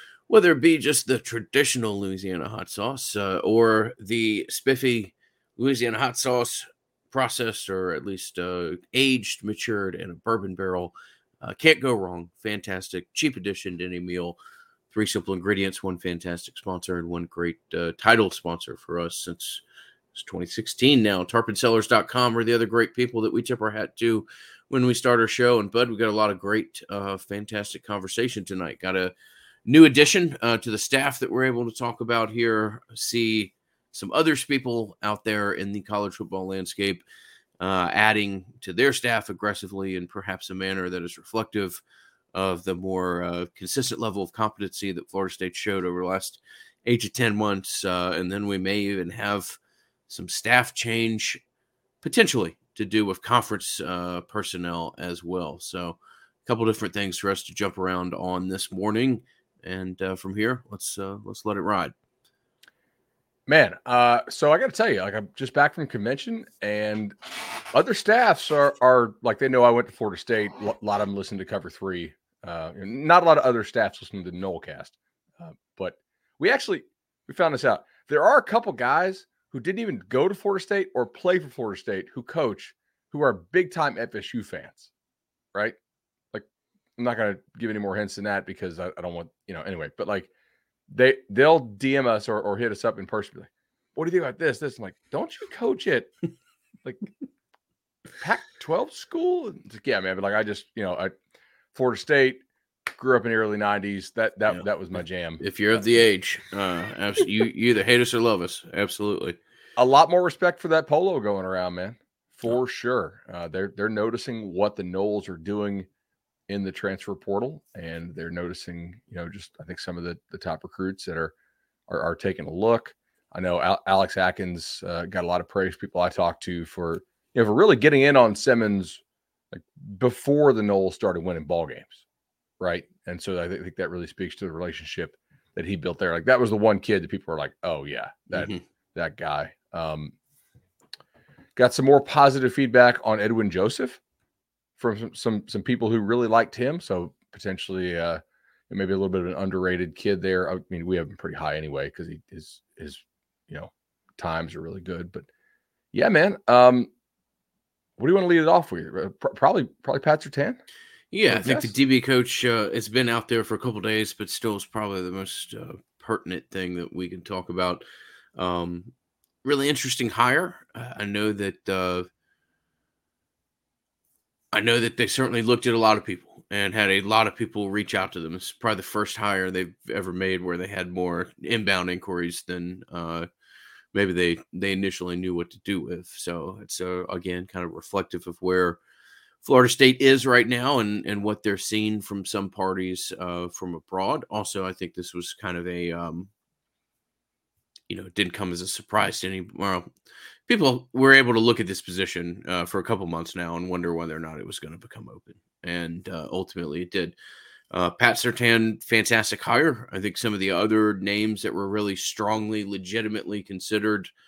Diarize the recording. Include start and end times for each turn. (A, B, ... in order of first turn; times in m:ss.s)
0:00.3-0:14.4 A
0:14.9-0:19.6 A
0:20.2-0:29.1 A
0:29.7-0:37.0 A
0:37.6-0:41.8 A
0:42.3-0:51.4 A
0:52.0-1:01.9 A
1:03.5-1:07.2 B
1:07.7-1:24.9 B
1:27.0-1:30.3 B
1:30.9-1:36.1 B
1:38.2-1:41.1 B
1:41.7-1:42.4 B
1:42.9-1:45.4 B
1:45.4-1:49.4 A
1:49.8-1:55.9 B
1:56.5-2:01.3 B
2:01.9-2:09.0 B
2:09.5-2:12.0 B
2:12.6-2:20.1 B
2:18.3-2:18.6 A
2:21.6-2:24.0 B
2:24.8-2:35.3 B
2:35.9-2:36.9 B
2:38.0-2:40.6 B
2:41.1-2:47.8 A
2:41.3-2:41.7 B
2:48.4-2:48.9 A
2:49.4-2:52.1 A
2:54.5-3:03.3 A
3:03.9-3:08.8 A
3:09.4-3:16.3 A
3:17.9-3:19.9 A
3:20.5-3:27.2 A
3:27.7-3:34.1 A